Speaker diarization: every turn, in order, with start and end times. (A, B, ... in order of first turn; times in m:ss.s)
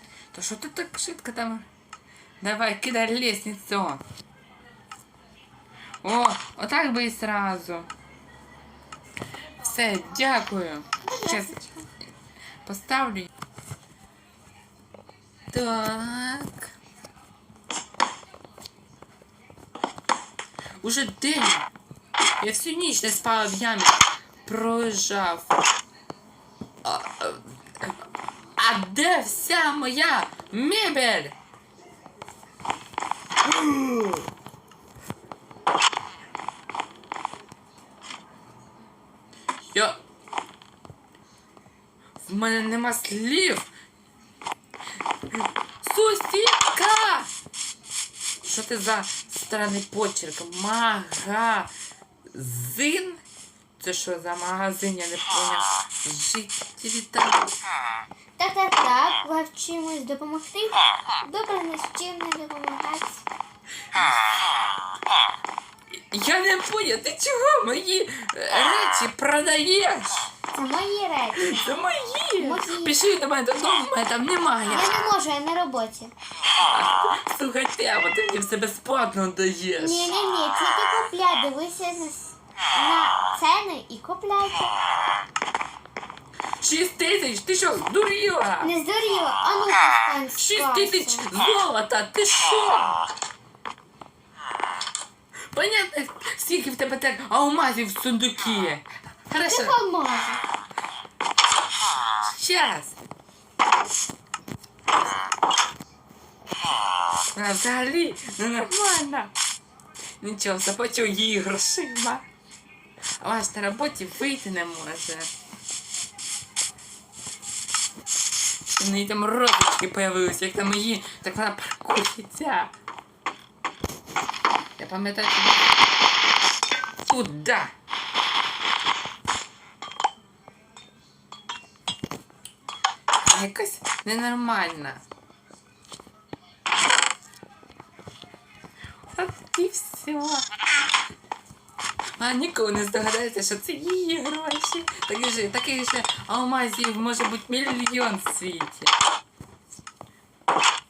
0:00.3-0:01.6 A
0:02.4-0:04.0 A
0:06.0-0:07.9 A
0:09.6-0:11.5 A
0:11.0-0:11.9 B
0:12.6-0:13.3 A
0:15.5-0:16.7 A
0:20.8-0:21.7 A
0:22.4-0:25.5 A
0:26.8-0:27.9 A
0:28.6-0:31.3 A
0:33.4-0:34.2 A
0:39.7-0:40.0 A
0:42.2-0:43.6 A
0:45.8-0:47.3 A
0:48.4-0:51.7 A
0:52.3-0:53.2 A
0:53.8-0:57.5 A
0:58.4-1:03.2 B
1:05.9-1:10.3 A
1:10.5-1:11.6 B
1:11.4-1:15.0 A
1:12.4-1:13.0 B
1:14.6-1:16.1 B
1:16.6-1:20.1 A
1:19.8-1:24.7 B
1:26.6-1:28.7 A
1:28.6-1:31.3 B
1:30.4-1:33.0 A
1:35.5-1:39.8 A
1:39.4-1:40.4 B
1:42.3-1:43.0 A
1:47.3-1:49.3 A
1:50.2-1:52.2 A
1:53.2-1:55.3 A
1:58.7-2:02.7 A
2:04.8-2:05.7 A
2:07.0-2:07.7 A
2:13.2-2:15.0 A
2:19.1-2:20.6 A
2:22.2-2:28.9 A